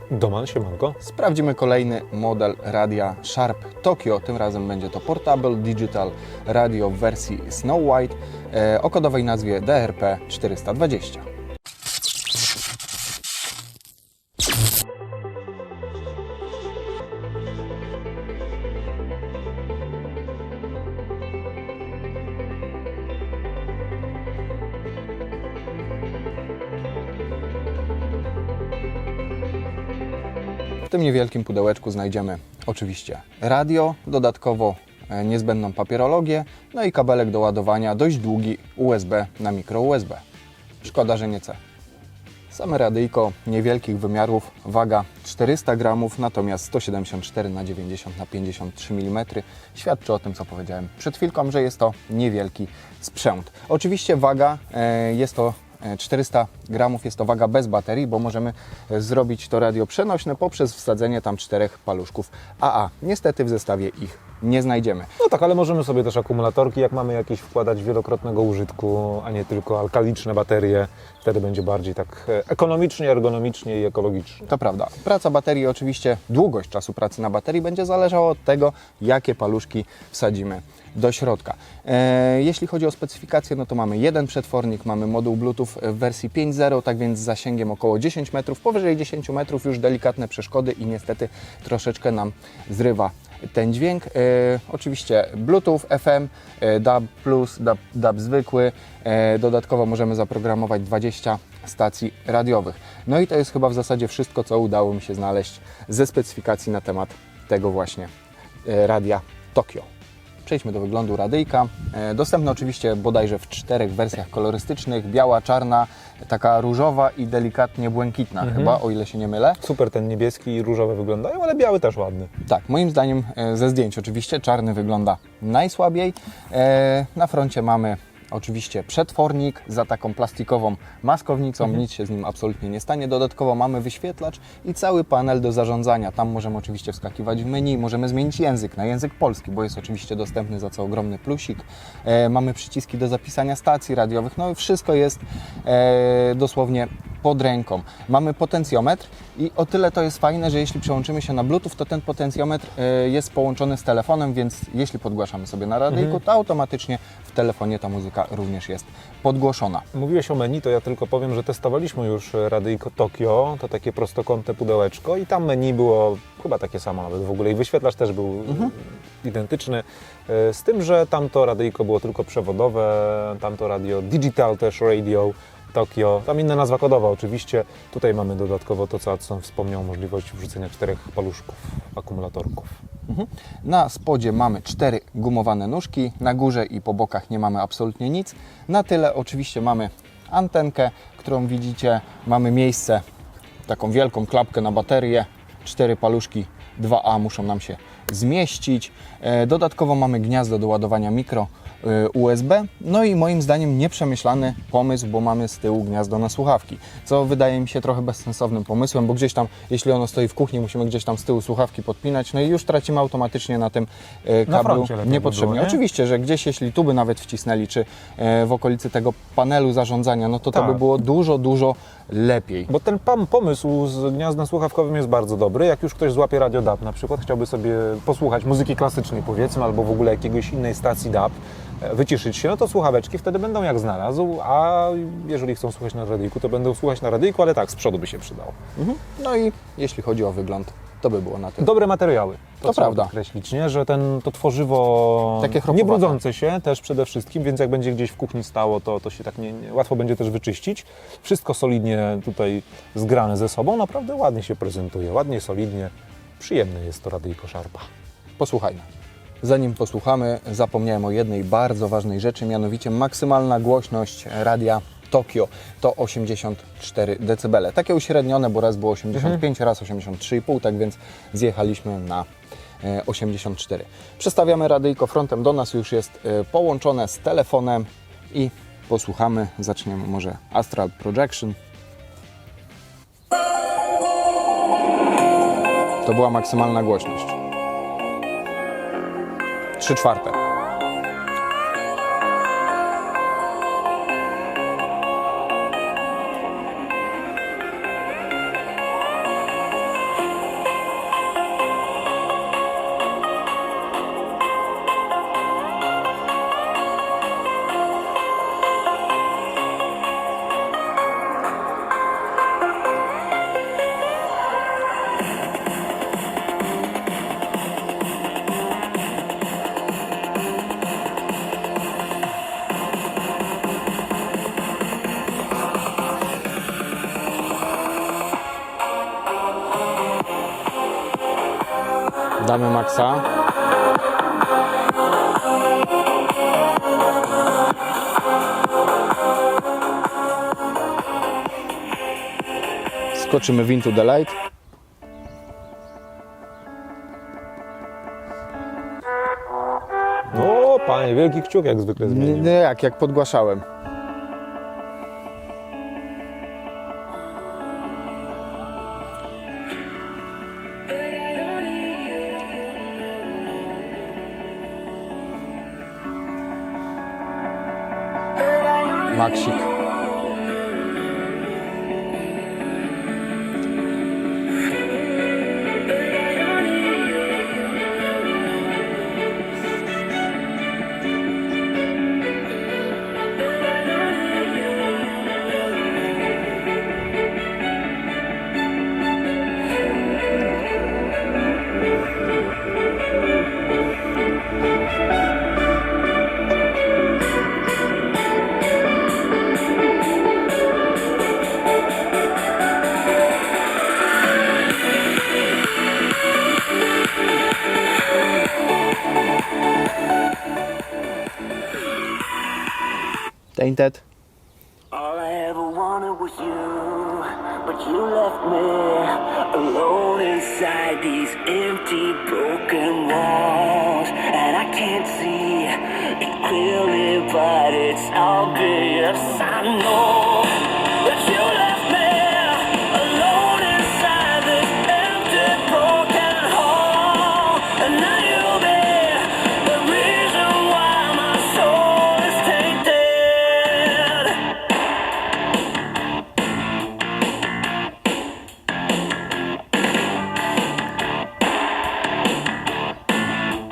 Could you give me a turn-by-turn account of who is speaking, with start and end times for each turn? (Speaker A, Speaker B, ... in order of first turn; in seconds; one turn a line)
Speaker A: 0.1-1.0
Speaker B: 1.0-11.2
Speaker B: 30.9-40.2
Speaker B: 40.8-41.6
Speaker B: 42.5-65.1
Speaker A: 65.2-74.5
Speaker B: 74.5-108.1
Speaker B: 108.6-109.9
Speaker B: 110.4-119.6
Speaker A: 118.4-118.8
Speaker A: 119.6-122.3
Speaker B: 122.4-159.8
Speaker A: 159.9-182.8
Speaker B: 183.1-193.0
Speaker B: 193.7-222.7
Speaker A: 214.5-215.8
Speaker A: 220.5-220.8
Speaker A: 222.7-238.6
Speaker B: 238.8-241.7
Speaker A: 241.6-257.9
Speaker B: 242.6-243.1
Speaker B: 245.4-246.2
Speaker B: 258.4-258.9
Speaker B: 259.4-272.2
Speaker A: 269.1-269.4
Speaker B: 272.8-281.5
Speaker B: 286.0-287.4
Speaker B: 289.8-290.4
Speaker B: 332.4-333.2
Speaker B: 343.1-344.3
Speaker A: 350.3-352.5
Speaker B: 352.0-353.6
Speaker B: 369.1-369.7
Speaker B: 413.6-414.0
Speaker C: 414.9-444.6